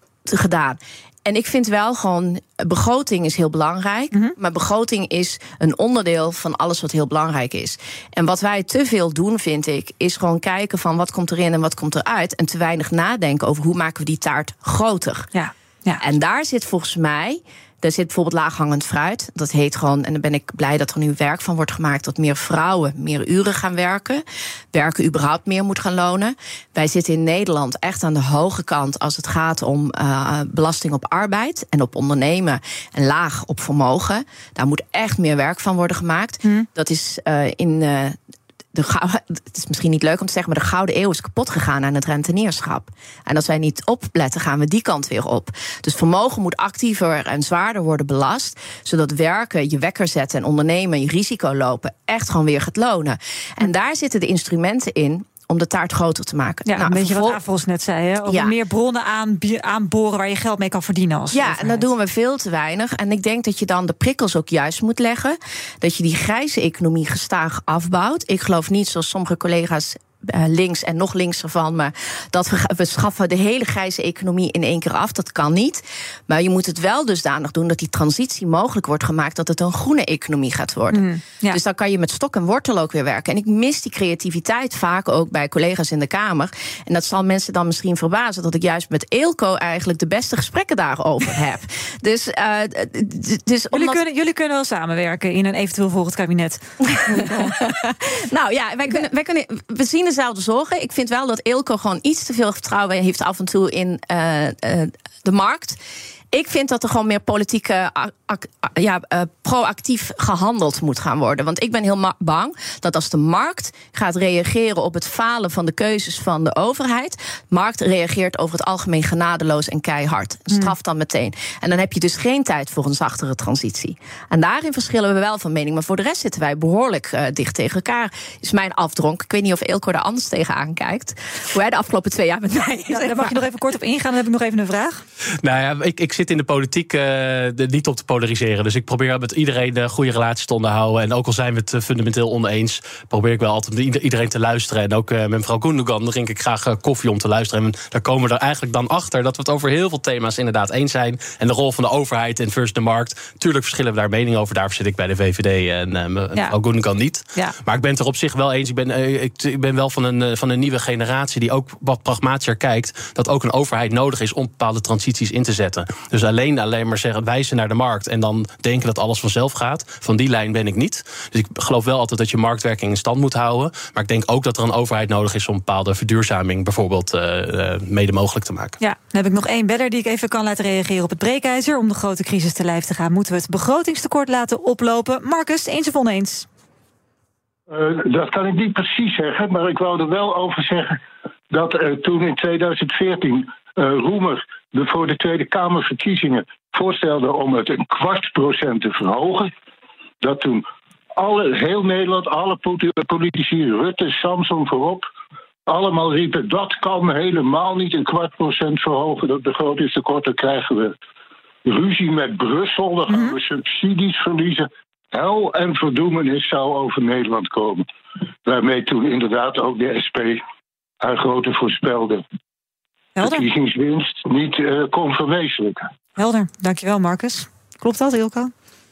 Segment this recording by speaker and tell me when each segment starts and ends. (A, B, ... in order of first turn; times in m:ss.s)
0:00.2-0:15.3 A
0:15.3-0:16.0 B
0:16.0-0:38.2 A
0:38.7-0:57.4 A
0:56.7-1:01.8 B
0:58.2-0:58.5 A
1:01.3-1:34.0 A
1:20.9-1:21.6 B
1:33.7-1:37.6 B
1:37.0-1:45.8 A
1:46.3-2:13.4 A
2:12.9-2:15.0 B
2:15.4-2:58.8 C
2:58.8-3:06.5 B
3:07.7-3:11.0 D
3:11.5-3:19.5 D
3:20.2-3:20.6 D
3:21.2-3:25.0 D
3:25.7-3:31.0 D
3:31.6-3:37.8 D
3:33.1-3:33.3 B
3:38.4-3:40.4 D
3:41.0-3:42.2 D
3:43.2-3:43.5 B
3:43.2-3:45.9 D
3:46.2-3:48.5 B